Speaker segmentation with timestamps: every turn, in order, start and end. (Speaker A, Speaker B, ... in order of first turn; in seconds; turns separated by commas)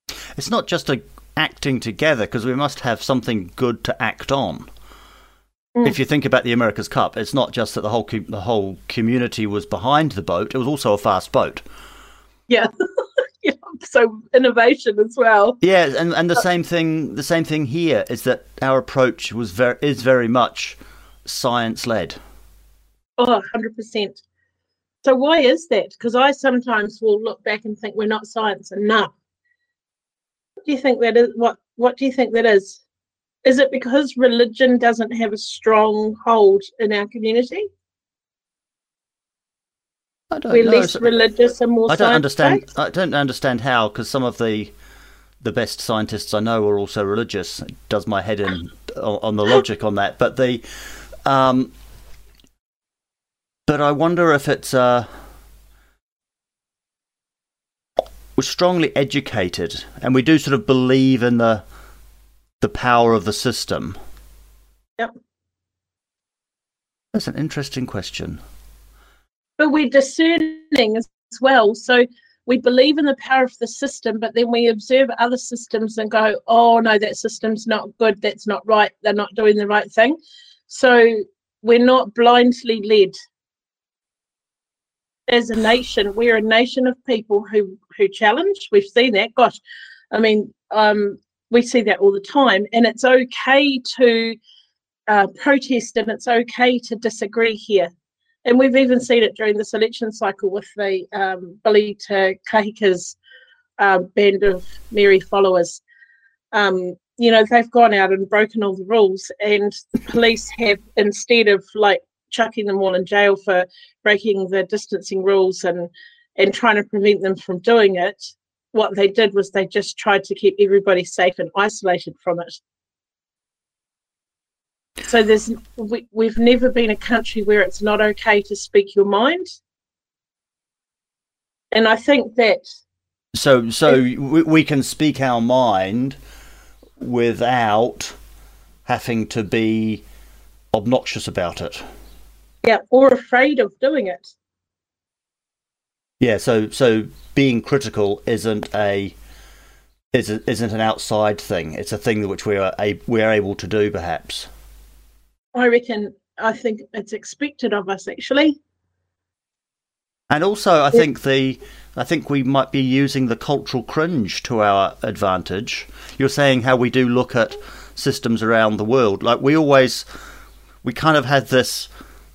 Speaker A: 0.3-4.7, Speaker A: 5.8-11.6, Speaker B: 13.4-15.6, Speaker A: 15.6-22.2, Speaker B: 23.2-24.2, Speaker B: 25.0-29.1, Speaker B: 30.6-32.8, Speaker B: 33.4-37.7, Speaker A: 40.3-41.1, Speaker B: 40.5-42.6, Speaker A: 41.9-44.7, Speaker A: 45.4-50.6, Speaker A: 51.2-51.7, Speaker A: 53.7-55.1, Speaker A: 58.4-61.6, Speaker A: 62.6-64.0, Speaker A: 67.1-68.4, Speaker B: 69.6-83.2, Speaker B: 85.3-89.6, Speaker B: 90.1-94.4, Speaker B: 95.1-97.9, Speaker B: 98.4-103.2, Speaker B: 103.8-105.8, Speaker B: 106.5-122.6, Speaker B: 125.1-129.6, Speaker B: 131.7-132.7, Speaker A: 133.3-136.2, Speaker A: 137.0-138.2, Speaker A: 138.8-140.0, Speaker A: 140.7-141.8, Speaker B: 142.6-144.3, Speaker A: 146.2-149.1, Speaker A: 150.1-154.5, Speaker B: 155.5-158.6, Speaker A: 160.3-170.1, Speaker A: 170.8-171.9